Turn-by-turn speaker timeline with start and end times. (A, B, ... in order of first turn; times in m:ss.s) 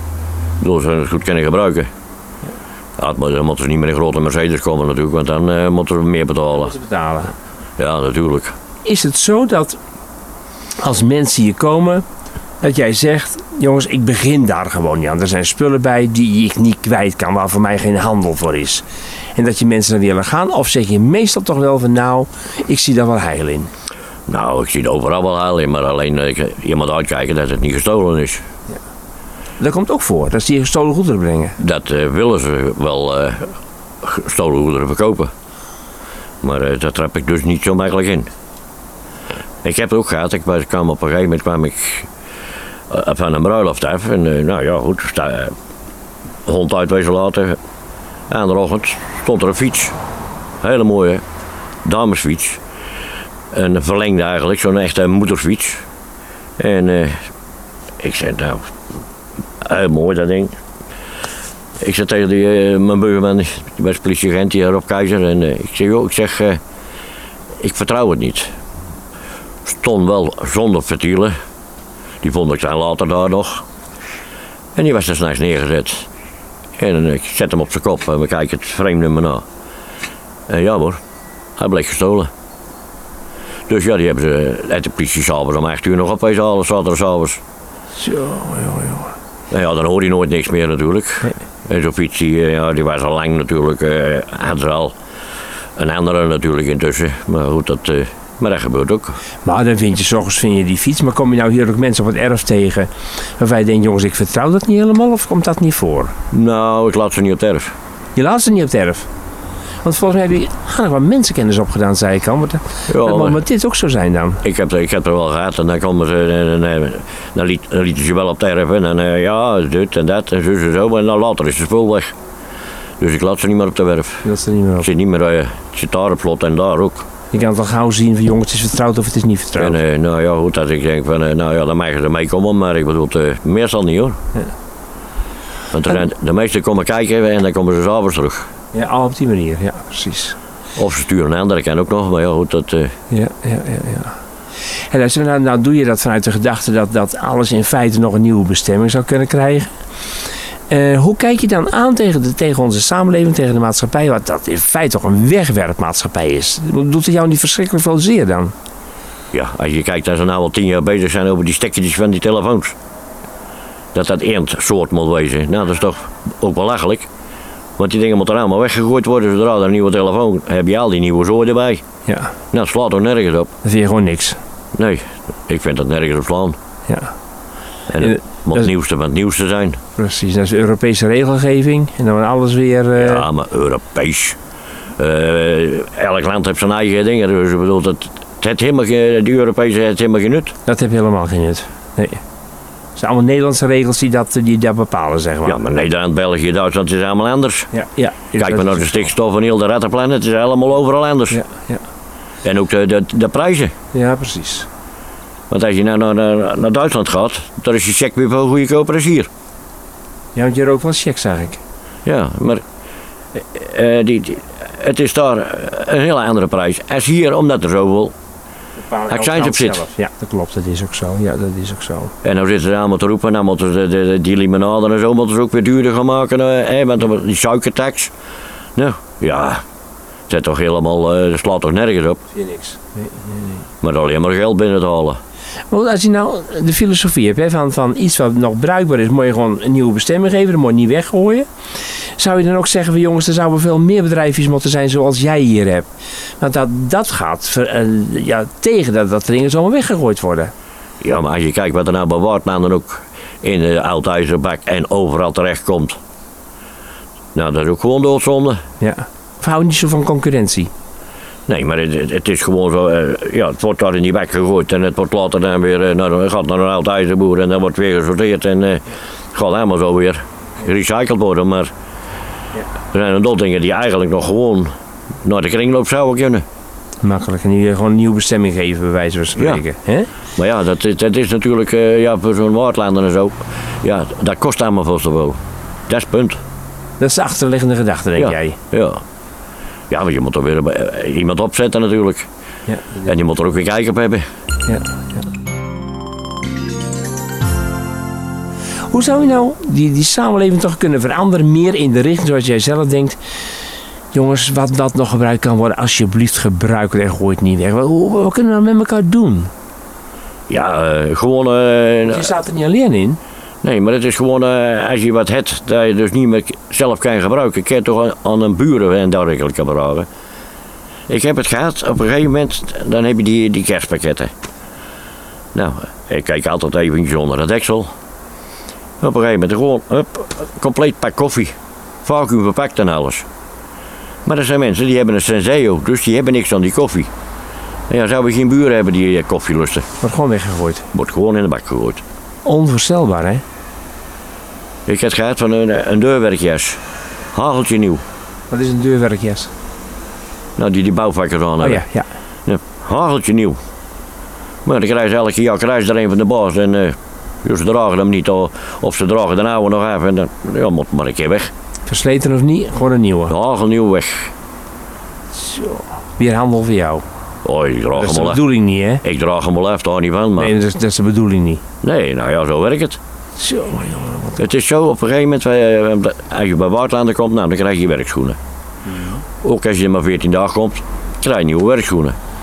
0:00.6-0:01.9 A
0:03.0-0:06.7 A
0:06.5-0:07.3 B
0:07.8-0:08.6 A
0:08.8-0:09.8 B
0:10.8-0:12.0 B
0:12.6-0:18.8 B
0:19.3-0:23.7 B
0:24.3-0:28.4 A
0:29.6-0:31.6 B
0:31.6-0:35.3 A
0:36.4-0:38.3 A
0:39.6-0:42.1 A
0:42.9-0:45.5 A
0:46.4-0:47.6 A
0:48.3-0:50.0 A
0:50.6-0:51.2 A
0:51.8-0:52.6 A
0:53.5-0:55.8 A
0:56.6-0:57.3 A
0:58.0-0:58.7 A
0:59.6-1:00.6 A
1:01.8-1:06.6 A
1:07.6-1:08.5 A
1:09.6-1:11.3 A
1:12.2-1:13.6 A
1:14.7-1:16.1 A
1:16.8-1:19.4 A
1:20.5-1:21.0 A
1:21.6-1:22.3 A
1:23.7-1:27.4 A
1:28.0-1:29.1 B
1:29.5-1:34.9 A
1:35.8-1:39.2 A
1:39.4-1:46.1 B
1:46.3-1:47.7 A
1:48.2-1:49.1 B
1:49.8-1:54.4 B
1:52.9-1:53.4 A
1:54.4-2:02.1 A
2:03.0-2:04.2 A
2:04.2-2:04.9 B
2:04.8-2:07.1 A
2:07.3-2:09.8 B
2:09.6-2:14.2 A
2:15.7-2:18.5 A
2:18.7-2:20.4 B
2:20.8-2:22.9 A
2:23.1-2:24.2 B
2:24.9-2:29.7 B
2:30.7-2:38.5 B
2:39.3-2:42.8 A
2:43.9-2:47.1 A
2:47.8-2:51.8 A
2:52.0-2:52.3 B
2:52.5-2:53.5 A
2:53.6-2:54.4 B
2:54.7-2:56.6 A
2:57.9-2:59.8 A
2:58.0-2:58.7 B
3:00.0-3:03.3 B
3:03.0-3:04.4 A
3:05.0-3:10.5 A
3:10.6-3:12.2 B
3:13.0-3:15.6 B
3:15.4-3:17.7 A
3:17.7-3:19.1 B
3:18.4-3:21.4 A
3:21.3-3:21.8 B
3:22.4-3:23.7 A
3:23.9-3:24.7 B
3:25.5-3:29.3 A
3:30.4-3:31.6 B
3:32.0-3:32.6 A
3:33.4-3:38.1 A
3:38.8-3:42.1 B
3:39.1-3:39.8 A
3:42.2-3:48.1 A
3:48.8-3:49.6 A
3:50.3-3:52.2 A
3:52.3-3:53.6 B
3:53.8-3:55.2 A
3:55.7-4:01.5 B
4:02.2-4:05.9 B
4:06.4-4:10.5 B
4:11.0-4:16.0 A
4:17.3-4:18.6 A
4:18.8-4:20.7 B
4:21.5-4:31.7 A
4:32.9-4:34.7 A
4:35.2-4:36.4 A
4:37.0-4:40.1 B
4:40.4-4:46.4 A
4:47.0-4:48.6 B
4:48.2-4:49.0 A
4:49.9-4:52.3 A
4:52.7-4:53.0 B
4:53.0-4:54.2 A
4:54.6-4:55.0 B
4:58.9-5:03.2 B
5:04.1-5:09.5 B
5:10.5-5:12.3 A
5:12.0-5:13.2 B
5:13.6-5:20.1 A
5:21.1-5:24.3 A
5:25.5-5:27.9 A
5:29.0-5:33.2 A
5:34.2-5:37.1 A
5:37.9-5:39.9 A
5:40.0-5:40.9 B
5:40.9-5:42.0 A
5:42.4-5:43.4 B
5:44.9-5:46.8 A
5:47.3-5:48.0 A
5:48.5-5:49.5 B
5:50.6-5:51.8 A
5:51.6-5:52.1 B
5:52.4-5:53.6 A
5:54.6-6:01.5 A
6:01.9-6:03.3 B
6:03.3-6:04.3 A
6:05.3-6:07.0 B
6:07.4-6:08.4 A
6:08.0-6:09.0 B
6:09.0-6:10.5 A
6:10.4-6:11.6 B
6:11.8-6:13.0 A
6:13.4-6:14.4 B
6:14.4-6:18.4 A
6:18.9-6:19.2 B
6:19.4-6:22.2 A